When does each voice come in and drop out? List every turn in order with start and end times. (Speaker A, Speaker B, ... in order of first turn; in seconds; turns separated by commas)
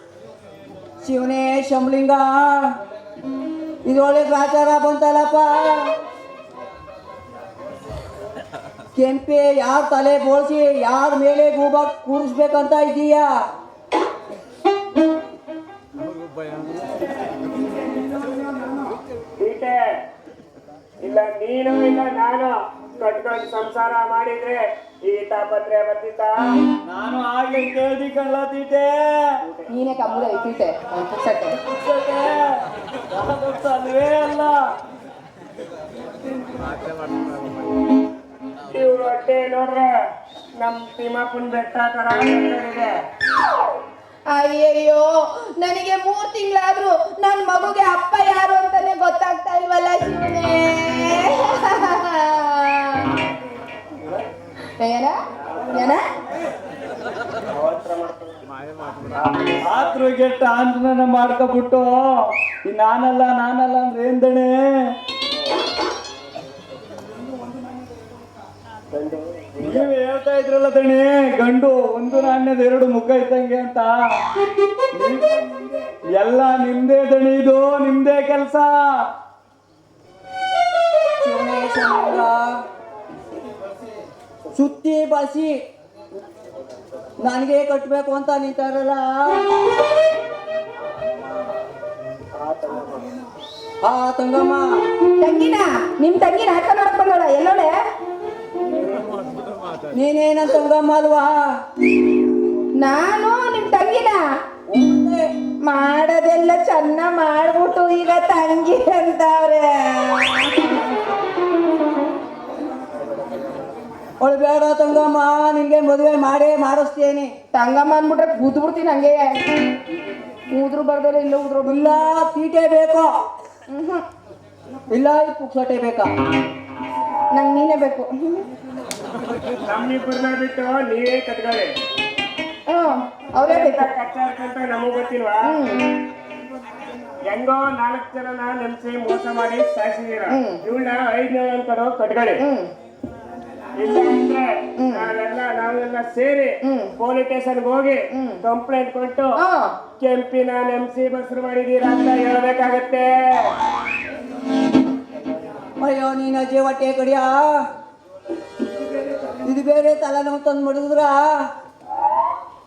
Speaker A: 1.0-2.7, Speaker A: 3.8-5.9, Speaker A: 8.9-13.3, Speaker B: 19.4-19.8, Speaker B: 21.0-26.4, Speaker C: 26.8-29.4, Speaker B: 29.4-29.7, Speaker D: 29.7-31.6, Speaker C: 31.6-34.6, Speaker B: 38.7-39.9, Speaker B: 40.6-43.0, Speaker D: 44.3-53.2, Speaker D: 54.8-55.1, Speaker D: 55.7-56.0, Speaker B: 57.5-58.4, Speaker B: 59.1-59.6, Speaker C: 59.6-64.7, Speaker B: 68.9-69.9, Speaker C: 69.6-74.2, Speaker C: 74.9-75.4, Speaker C: 76.2-79.1, Speaker A: 81.2-82.4, Speaker A: 84.5-85.6, Speaker A: 87.2-89.5, Speaker B: 92.4-93.1, Speaker A: 93.8-94.6, Speaker D: 95.2-97.7, Speaker B: 98.7-99.1, Speaker A: 99.9-101.3, Speaker D: 102.8-104.2, Speaker A: 104.7-105.2, Speaker D: 105.6-110.8, Speaker A: 114.2-117.3, Speaker D: 117.5-119.3, Speaker D: 120.5-122.0, Speaker A: 121.6-123.1, Speaker D: 123.7-124.0, Speaker A: 124.9-126.1, Speaker D: 127.3-128.5, Speaker B: 129.6-131.7, Speaker D: 132.7-133.9, Speaker B: 133.4-135.6, Speaker D: 135.4-135.9, Speaker B: 137.3-142.4, Speaker D: 140.3-140.6, Speaker D: 142.4-142.7, Speaker B: 143.7-149.4, Speaker D: 144.8-145.1, Speaker D: 146.6-146.9, Speaker D: 148.1-148.4, Speaker D: 149.4-149.7, Speaker B: 150.0-153.5, Speaker A: 155.8-157.4, Speaker A: 159.3-161.2